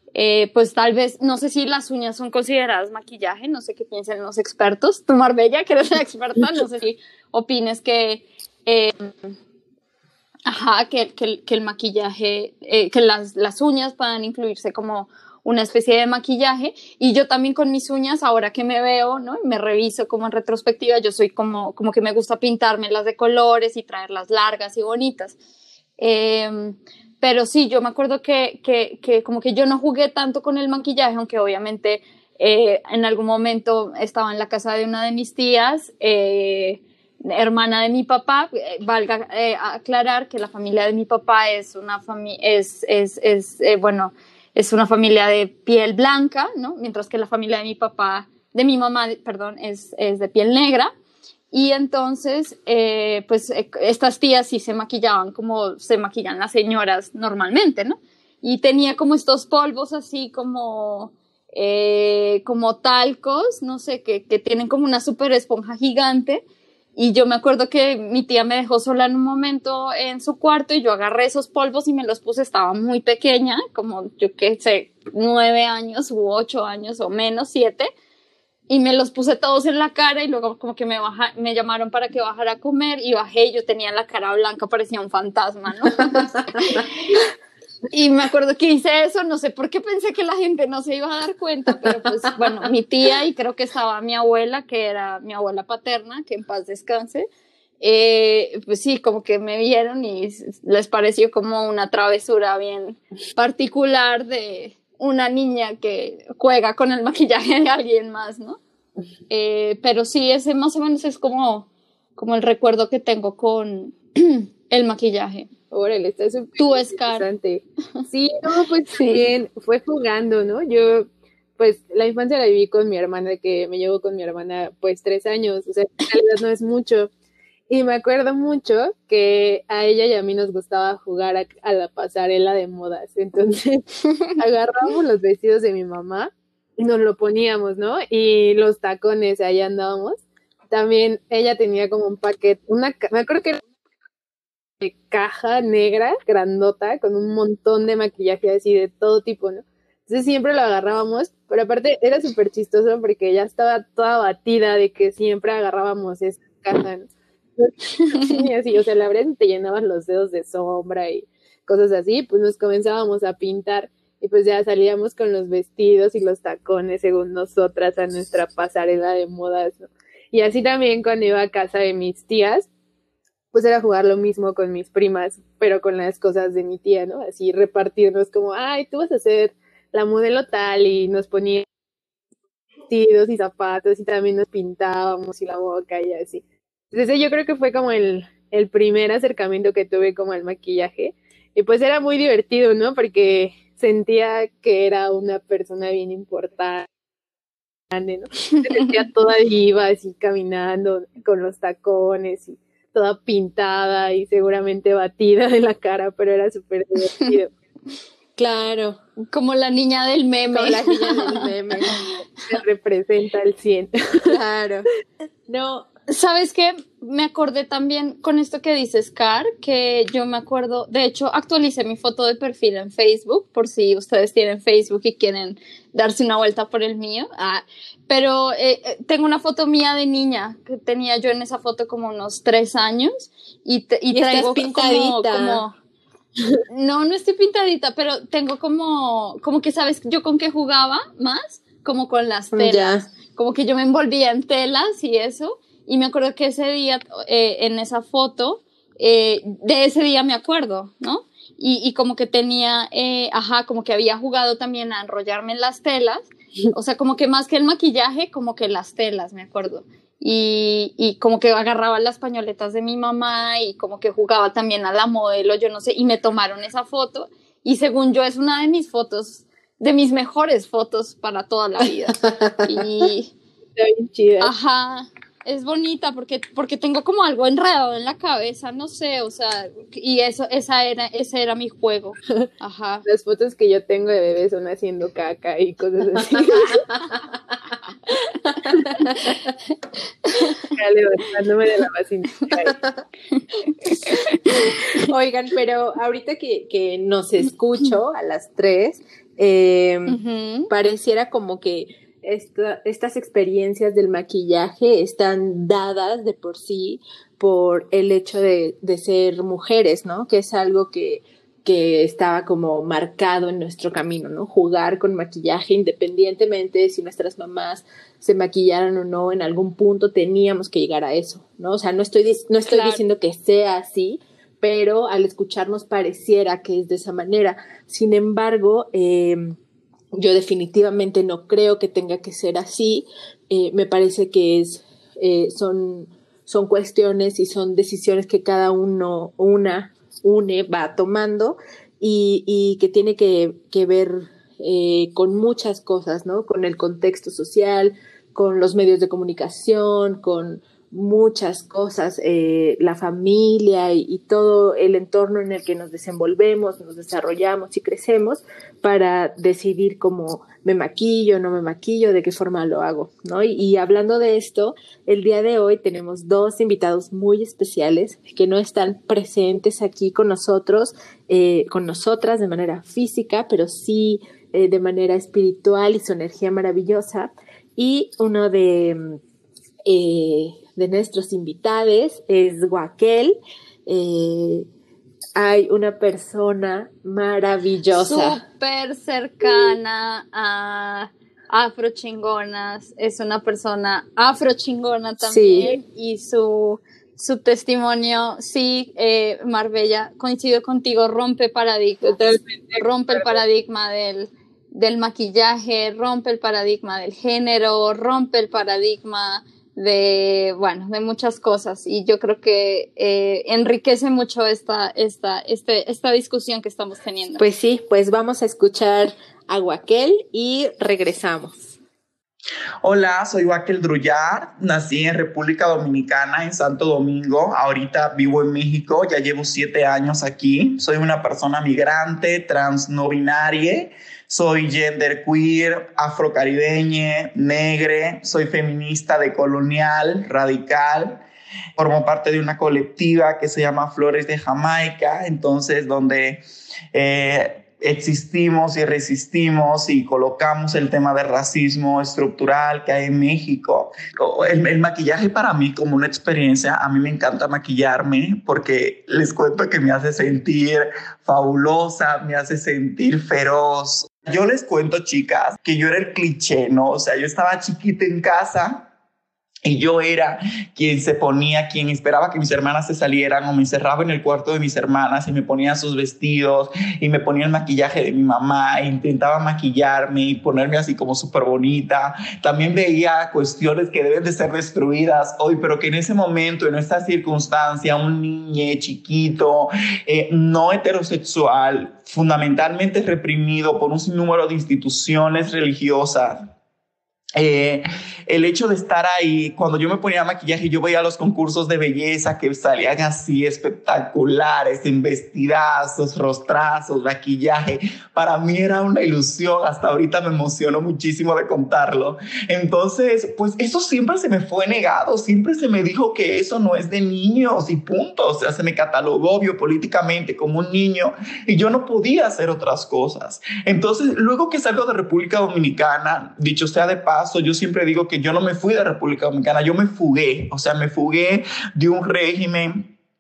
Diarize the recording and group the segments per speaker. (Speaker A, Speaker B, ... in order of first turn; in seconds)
Speaker A: 0.1-9.3, 10.5-25.4, 26.0-50.9, 51.5-66.4, 67.0-77.9, 78.7-87.3, 87.9-97.3, 97.8-108.6, 109.3-115.5, 116.6-117.3, 118.9-119.3, 209.3-211.5, 216.1-235.8, 236.7-273.3, 274.4-283.1, 294.1-294.9, 300.1-300.7, 322.7-323.0, 387.9-417.4
Speaker B: 115.7-127.1, 127.7-133.8, 134.4-143.6, 144.8-172.7, 173.5-181.7, 182.9-196.9, 197.9-207.5, 212.5-214.3, 273.8-274.5, 283.1-286.9, 288.7-289.1, 290.6-292.8, 402.1-403.3
Speaker C: 208.4-209.0, 210.5-212.0, 214.3-214.9, 215.5-215.9, 234.1-235.6, 242.5-243.1, 294.9-329.6, 330.1-379.2, 379.9-384.7, 385.4-388.4, 395.2-395.8, 417.4-421.8
Speaker D: 422.8-441.2, 441.8-446.4, 446.9-468.9, 469.6-496.5, 497.4-532.9